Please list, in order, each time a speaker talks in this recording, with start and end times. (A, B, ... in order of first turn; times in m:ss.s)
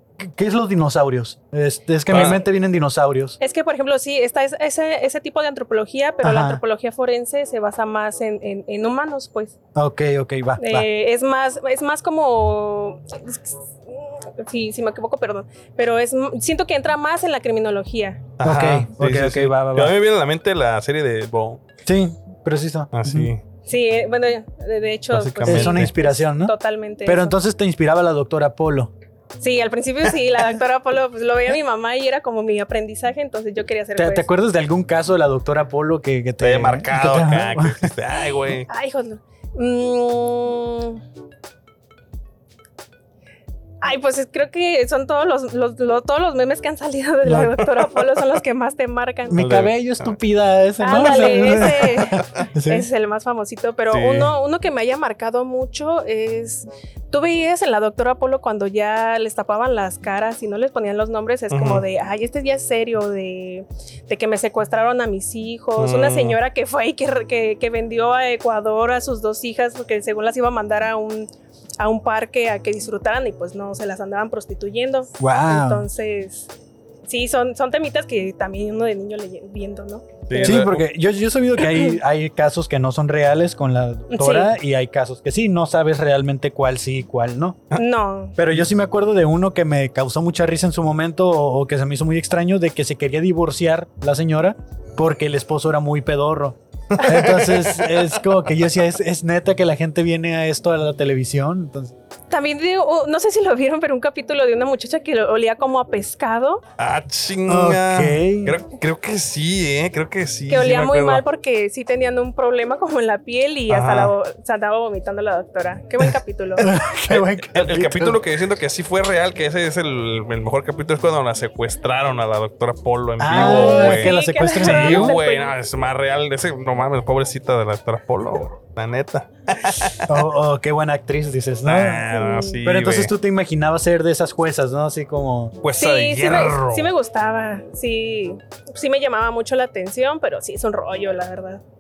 0:00.2-0:03.4 A
0:02.1-0:02.4 B
0:03.4-0:09.6 C
0:06.2-0:06.6 A
0:09.8-0:10.9 A
0:10.6-0:18.3 C
0:18.4-0:21.6 B
0:18.4-0:20.0 A
0:21.8-0:23.3 A
0:22.9-0:23.4 B
0:23.7-0:27.4 C
0:25.1-0:25.9 B
0:25.4-0:26.6 A
0:27.1-0:28.9 A
0:29.4-0:34.3 C
0:34.0-0:37.9 A
0:36.4-0:38.7 B
0:38.7-0:41.0 C
0:43.8-0:49.4 C
0:47.2-0:47.6 A
0:49.3-0:52.9 A
0:49.4-0:50.2 B
0:50.8-1:16.5 C
0:53.9-0:54.3 B
1:01.5-1:01.8 B
1:05.8-1:06.4 B
1:15.2-1:15.9 A
1:17.1-1:20.7 C
1:20.3-1:20.9 B
1:20.4-1:27.7 A
1:24.1-1:24.5 C
1:27.7-1:28.4 C
1:28.4-1:41.9 A
1:37.0-1:38.0 C
1:37.1-1:37.4 B
1:42.3-1:46.6 C
1:46.8-1:51.2 B
1:47.5-1:48.6 A
1:50.5-1:56.7 C
1:53.7-1:54.1 B
1:56.6-1:58.2 A
1:57.1-2:10.2 B
2:03.2-2:05.2 A
2:03.4-2:05.6 C
2:10.1-2:12.1 A
2:11.6-2:13.1 B
2:12.1-2:12.6 C
2:12.6-2:15.6 A
2:15.6-2:16.9 B
2:15.8-2:21.6 C